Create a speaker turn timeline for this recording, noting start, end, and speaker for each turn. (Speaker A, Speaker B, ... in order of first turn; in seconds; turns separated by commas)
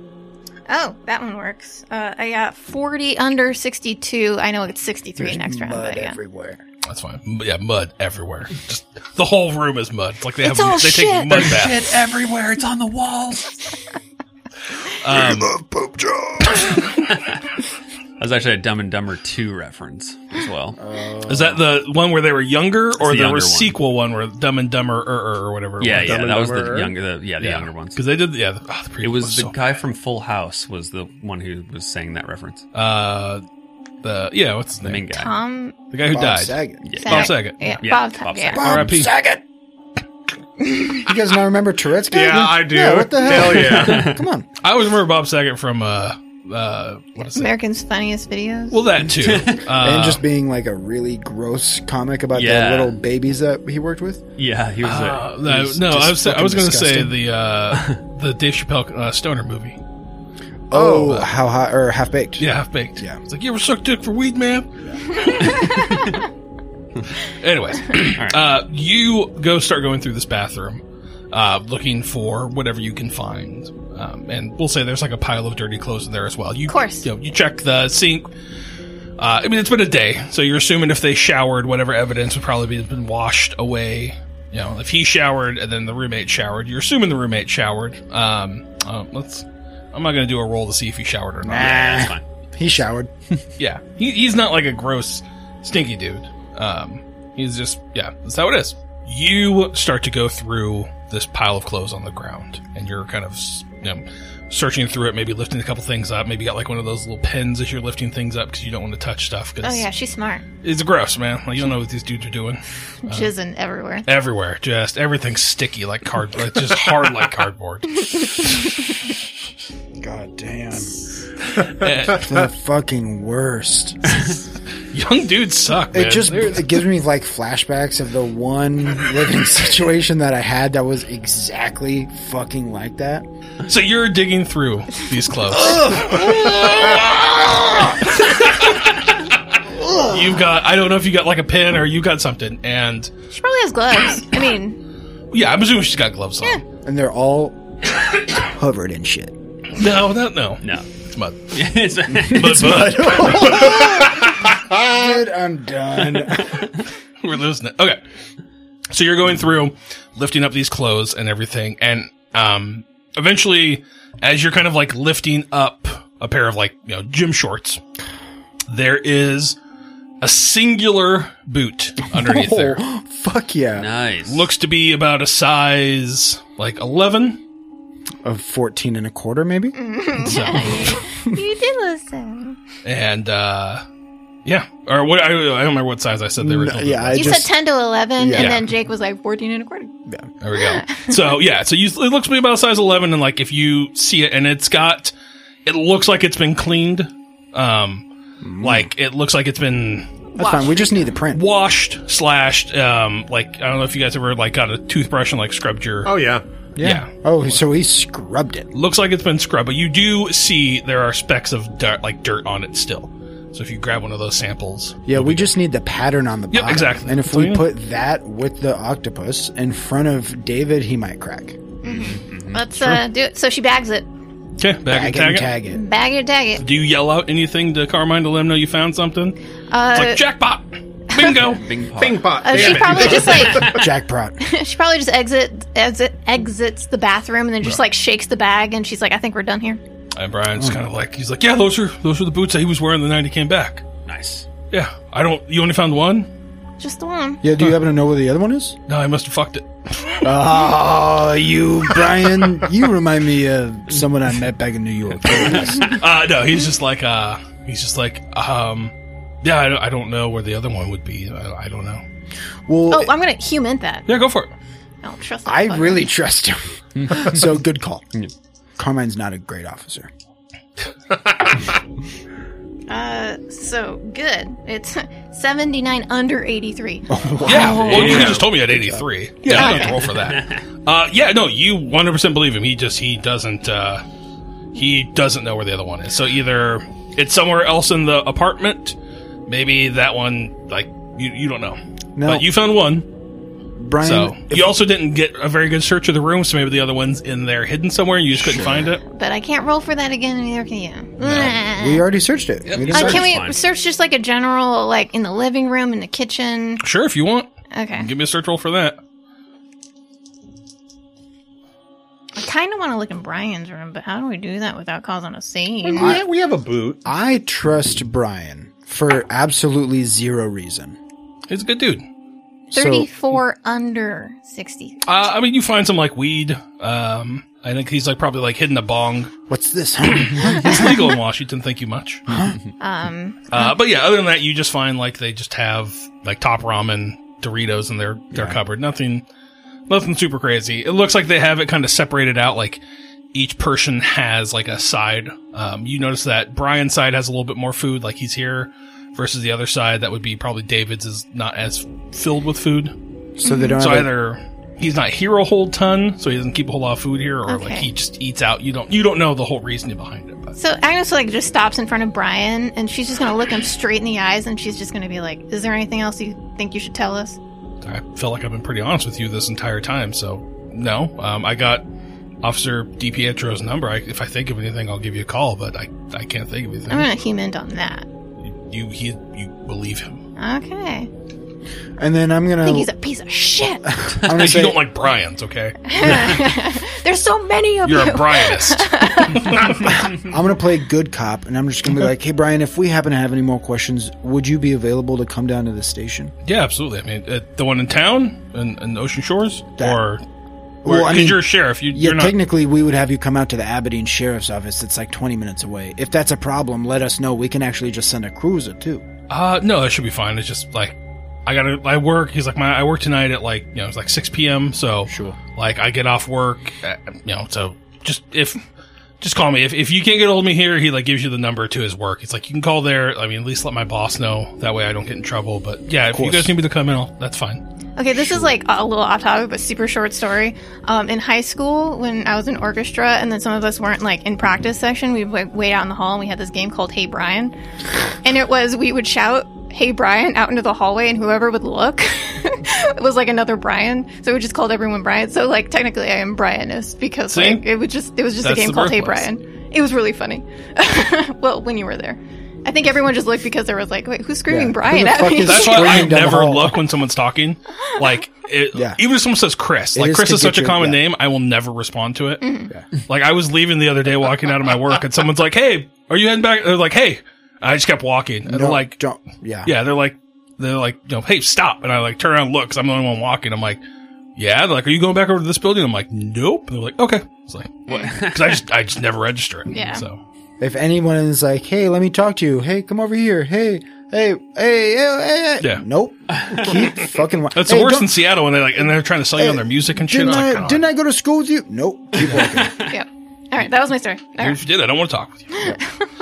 Speaker A: 0.7-6.2, Speaker B: 5.2-6.6, Speaker C: 6.8-11.9, Speaker A: 10.4-11.6, Speaker D: 11.3-13.7, Speaker C: 14.8-15.6, Speaker B: 15.1-16.9, Speaker C: 16.6-17.0, Speaker D: 18.2-20.8, Speaker B: 20.8-21.6, Speaker C: 21.2-26.2, Speaker D: 22.9-23.8, Speaker D: 25.8-28.0, Speaker E: 26.0-26.9, Speaker C: 27.4-29.6, Speaker D: 29.0-32.6, Speaker C: 32.7-33.4, Speaker C: 34.0-35.1, Speaker D: 34.8-35.3, Speaker A: 35.1-35.8, Speaker C: 35.9-37.7, Speaker B: 36.1-36.9, Speaker D: 36.8-38.9, Speaker A: 37.0-38.8, Speaker B: 38.5-39.4, Speaker C: 38.6-39.1, Speaker B: 40.9-44.5, Speaker E: 42.1-44.2, Speaker D: 43.4-44.2, Speaker C: 44.6-47.5, Speaker A: 47.2-48.8, Speaker C: 48.7-50.2, Speaker D: 49.1-49.6, Speaker B: 49.7-54.2, Speaker D: 52.3-53.0, Speaker D: 54.4-55.2, Speaker C: 54.8-59.8, Speaker B: 55.4-57.2, Speaker B: 60.7-63.2, Speaker C: 60.7-61.3, Speaker C: 62.4-66.0, Speaker A: 65.4-66.0, Speaker D: 65.6-66.2, Speaker C: 67.3-78.3, Speaker A: 76.7-77.1, Speaker C: 79.2-92.1, Speaker B: 91.4-93.1, Speaker D: 91.6-92.2, Speaker C: 93.6-109.9, Speaker A: 109.6-110.5, Speaker C: 110.6-113.3, Speaker A: 113.0-114.1, Speaker C: 114.0-118.7, Speaker A: 118.3-118.7, Speaker B: 120.0-121.0, Speaker C: 121.5-122.3, Speaker B: 122.1-124.2, Speaker C: 124.9-126.8, Speaker B: 125.9-133.2, Speaker C: 133.6-137.0, Speaker B: 135.5-138.2, Speaker C: 138.2-139.0, Speaker B: 139.7-140.4, Speaker C: 139.9-143.1, Speaker A: 143.3-144.8, Speaker C: 145.3-146.6, Speaker B: 146.8-147.6, Speaker B: 148.2-149.3, Speaker C: 149.7-153.7, Speaker D: 150.6-150.9, Speaker D: 151.5-152.9, Speaker B: 152.2-156.7, Speaker E: 153.6-155.0, Speaker C: 157.2-158.0, Speaker C: 158.9-167.8, Speaker C: 168.7-169.6, Speaker C: 170.2-172.8, Speaker B: 172.1-173.9, Speaker D: 173.8-174.5, Speaker C: 174.2-177.4, Speaker B: 178.2-179.8, Speaker A: 179.7-182.6, Speaker C: 180.2-181.0, Speaker C: 182.8-183.8, Speaker C: 184.4-187.5, Speaker B: 186.4-187.5, Speaker A: 187.1-189.9, Speaker B: 188.2-188.6, Speaker C: 188.3-188.7, Speaker C: 190.4-195.1, Speaker A: 190.6-191.3, Speaker C: 195.7-198.1, Speaker B: 198.4-198.9, Speaker C: 198.6-200.1, Speaker A: 200.3-201.1, Speaker B: 200.4-201.4, Speaker C: 201.3-206.1, Speaker E: 206.0-206.4, Speaker B: 206.8-208.7, Speaker C: 206.8-207.6, Speaker C: 208.7-215.5, Speaker B: 215.1-221.6, Speaker C: 216.5-217.7, Speaker A: 221.8-224.1, Speaker D: 221.9-222.6, Speaker C: 222.7-223.0, Speaker C: 224.6-225.6, Speaker B: 224.9-225.8, Speaker A: 225.6-226.6, Speaker C: 226.6-229.4, Speaker A: 229.7-230.2, Speaker C: 229.9-231.6, Speaker A: 231.1-231.5, Speaker D: 231.4-233.7, Speaker E: 232.0-233.8, Speaker A: 232.4-233.8, Speaker C: 232.6-233.2, Speaker B: 233.6-234.4, Speaker A: 234.4-239.8, Speaker C: 240.2-243.8, Speaker D: 244.1-244.5, Speaker C: 244.7-246.3, Speaker A: 246.8-247.4, Speaker B: 247.4-248.8, Speaker C: 248.9-250.3, Speaker B: 250.2-256.0, Speaker C: 255.8-262.0, Speaker B: 262.7-263.1, Speaker A: 262.9-264.1, Speaker C: 264.1-264.5, Speaker A: 265.0-266.1, Speaker B: 265.4-268.1, Speaker D: 267.0-267.3, Speaker B: 268.8-270.1, Speaker A: 272.9-277.9, Speaker B: 277.1-279.9, Speaker D: 277.4-278.4, Speaker C: 277.4-284.0, Speaker D: 279.5-280.6, Speaker A: 279.6-279.9, Speaker C: 284.7-293.1, Speaker B: 292.1-292.4, Speaker B: 293.8-294.8, Speaker C: 294.0-299.0, Speaker B: 298.3-298.9, Speaker A: 299.0-302.0, Speaker C: 301.2-301.6, Speaker B: 301.7-303.3, Speaker D: 302.6-303.6, Speaker A: 302.9-306.8, Speaker C: 306.8-309.0, Speaker A: 307.7-308.1, Speaker A: 312.4-316.2, Speaker E: 315.8-317.0, Speaker B: 315.9-316.2, Speaker B: 317.0-321.0, Speaker C: 321.5-322.0, Speaker B: 322.7-323.1, Speaker A: 322.7-325.0, Speaker C: 325.0-329.3, Speaker B: 329.5-330.9, Speaker C: 330.0-332.3, Speaker A: 330.4-331.1, Speaker B: 332.3-332.6, Speaker A: 332.8-333.7, Speaker C: 333.5-339.2, Speaker B: 338.3-338.6, Speaker C: 339.9-342.8, Speaker C: 343.3-352.9, Speaker B: 353.4-354.1, Speaker A: 353.4-353.8, Speaker C: 353.8-360.6, Speaker A: 357.4-357.9, Speaker A: 360.6-367.4, Speaker C: 367.8-371.8, Speaker C: 372.4-377.1, Speaker A: 376.9-378.1, Speaker C: 378.4-380.2, Speaker A: 380.4-381.1, Speaker B: 382.0-382.9, Speaker A: 382.6-384.0, Speaker B: 383.9-384.8, Speaker C: 384.2-386.3, Speaker A: 385.9-389.9, Speaker B: 386.0-386.3, Speaker C: 387.8-389.8, Speaker B: 389.8-396.3, Speaker C: 396.4-400.2, Speaker B: 400.8-409.0, Speaker C: 400.8-402.4, Speaker C: 409.3-418.6, Speaker B: 415.1-415.4, Speaker C: 419.2-427.6, Speaker B: 426.1-426.5, Speaker A: 428.0-437.5, Speaker A: 438.2-456.1, Speaker C: 447.3-447.6, Speaker C: 448.4-449.3, Speaker B: 454.5-456.8, Speaker C: 455.4-469.0, Speaker B: 458.7-459.0, Speaker B: 459.9-461.0, Speaker A: 462.4-462.7, Speaker B: 468.5-469.7, Speaker C: 469.6-473.8, Speaker C: 474.4-480.2, Speaker A: 477.9-478.1, Speaker D: 477.9-478.6, Speaker A: 479.7-480.1, Speaker B: 480.6-488.1, Speaker D: 486.4-486.8, Speaker C: 487.5-490.9, Speaker B: 489.4-492.8, Speaker D: 492.3-492.9, Speaker A: 492.9-494.6, Speaker C: 494.4-495.8, Speaker A: 495.6-496.1